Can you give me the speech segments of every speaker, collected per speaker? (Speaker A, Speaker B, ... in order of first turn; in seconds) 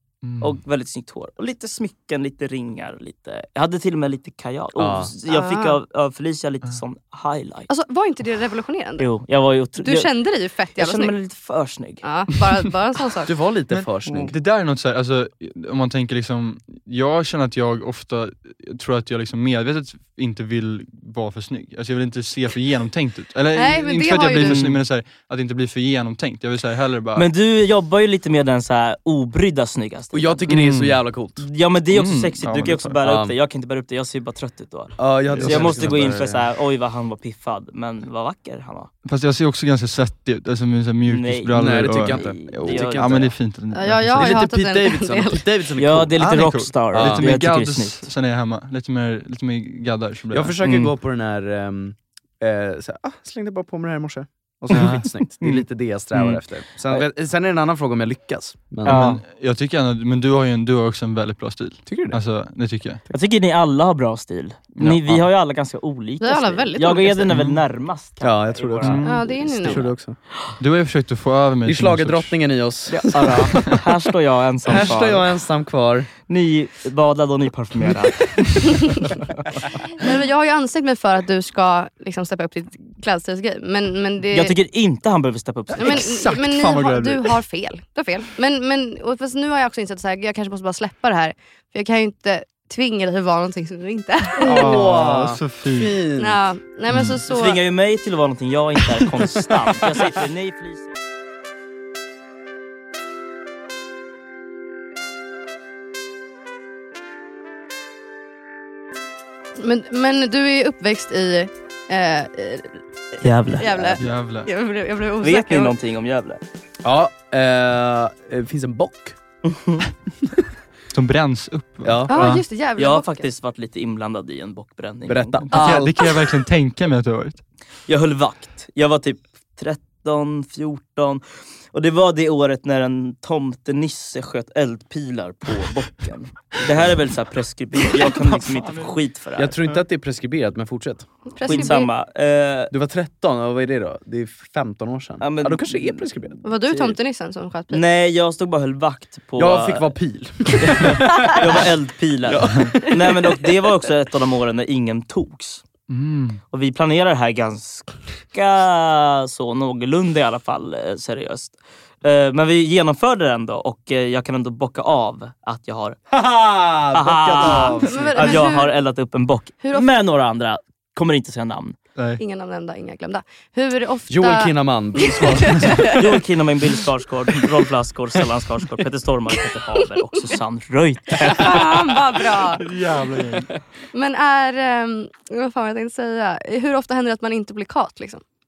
Speaker A: 0.2-0.6, 13.7-27.3, 30.5-31.0, 31.9-33.0, 35.4-36.2, 39.0-44.4, 46.2-50.8, 54.7-55.0, 58.8-63.0, 64.8-65.3, 67.3-67.6, 68.8-69.3, 70.6-72.3, 85.8-87.3, 94.5-96.0, 96.9-97.2, 114.0-114.5, 120.9-122.4, 125.5-127.4, 137.9-138.9, 155.9-156.4, 172.0-172.2, 182.6-183.5
Speaker B: 0.4-7.7, 9.0-10.1, 10.8-12.0, 14.1-14.3, 24.5-24.7, 27.2-30.5, 31.4-38.9, 41.1-43.3, 45.8-48.1, 54.7-55.6, 58.8-59.2, 63.1-69.0, 69.6-69.9, 72.9-75.3, 76.3-78.3, 84.3-86.0, 97.3-100.9, 113.2-113.7, 115.2-116.4, 119.5-119.8, 122.8-125.6, 127.9-139.6, 141.4-142.7, 145.2-146.1, 147.7-149.9, 150.6-155.6, 156.5-166.0, 166.9-171.8, 175.9-181.7
Speaker C: 4.8-5.1, 13.2-14.3, 30.1-31.4, 33.0-33.4, 35.0-36.5, 41.5-43.4, 44.1-46.2, 46.9-47.3, 50.3-59.1, 61.9-62.2, 68.2-70.2, 71.7-73.7, 74.7-76.1, 94.4-96.4, 116.8-119.2, 121.8-122.4, 125.1-126.0, 139.4-141.7, 142.7-146.4, 149.4-151.7, 152.2-152.8, 166.1-168.5, 174.1-176.0
Speaker D: 5.3-5.8, 7.7-9.1, 9.8-11.2, 12.0-13.3, 23.5-24.7, 43.7-45.5, 66.2-67.3, 69.0-69.9, 78.7-79.1, 80.0-84.5, 85.8-94.8, 96.2-97.6, 109.6-112.8, 113.6-115.8, 122.1-123.3, 141.3-141.9, 146.4-147.8, 167.5-168.8, 169.6-169.9, 172.2-176.0, 181.3-182.7, 183.9-188.2